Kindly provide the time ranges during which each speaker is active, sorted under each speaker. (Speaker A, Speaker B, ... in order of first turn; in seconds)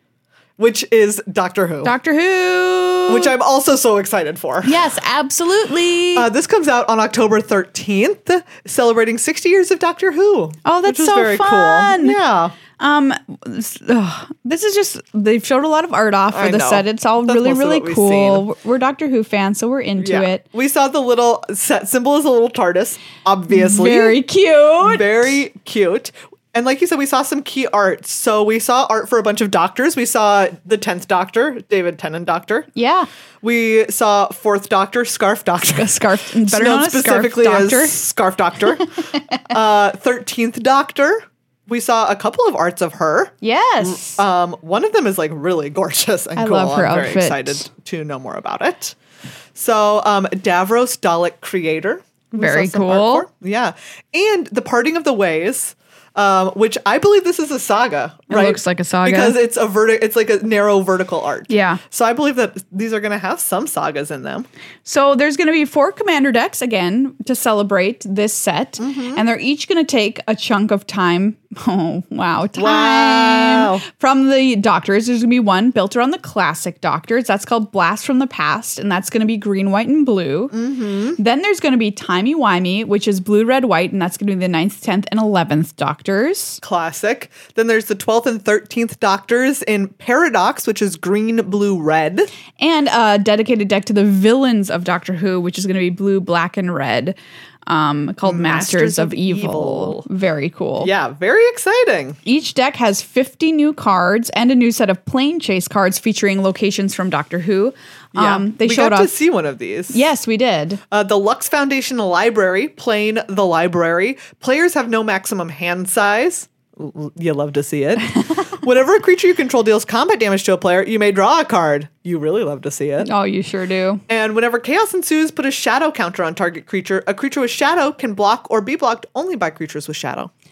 Speaker A: 0.6-1.9, 3.1-4.8, 6.2-12.6, 16.3-18.4, 20.0-24.2, 24.8-32.7, 33.4-38.9, 39.5-49.0, 49.5-64.5, 68.8-69.2, 72.6-73.8, 80.5-81.2, 86.6-92.3, 98.2-100.1, 100.8-102.2, 108.1-110.0, 110.9-123.1, 124.1-130.3
Speaker B: 1.8-3.3, 4.7-6.3, 10.7-12.2, 12.8-20.4, 23.5-25.1, 32.8-33.1, 35.7-38.0, 39.1-39.4, 43.4-44.2, 46.4-47.7, 52.4-53.3, 58.3-59.4, 61.5-61.8, 64.8-80.5, 81.2-86.6, 92.6-97.2, 97.7-100.9, 102.2-109.1, 109.9-110.8, 123.0-124.0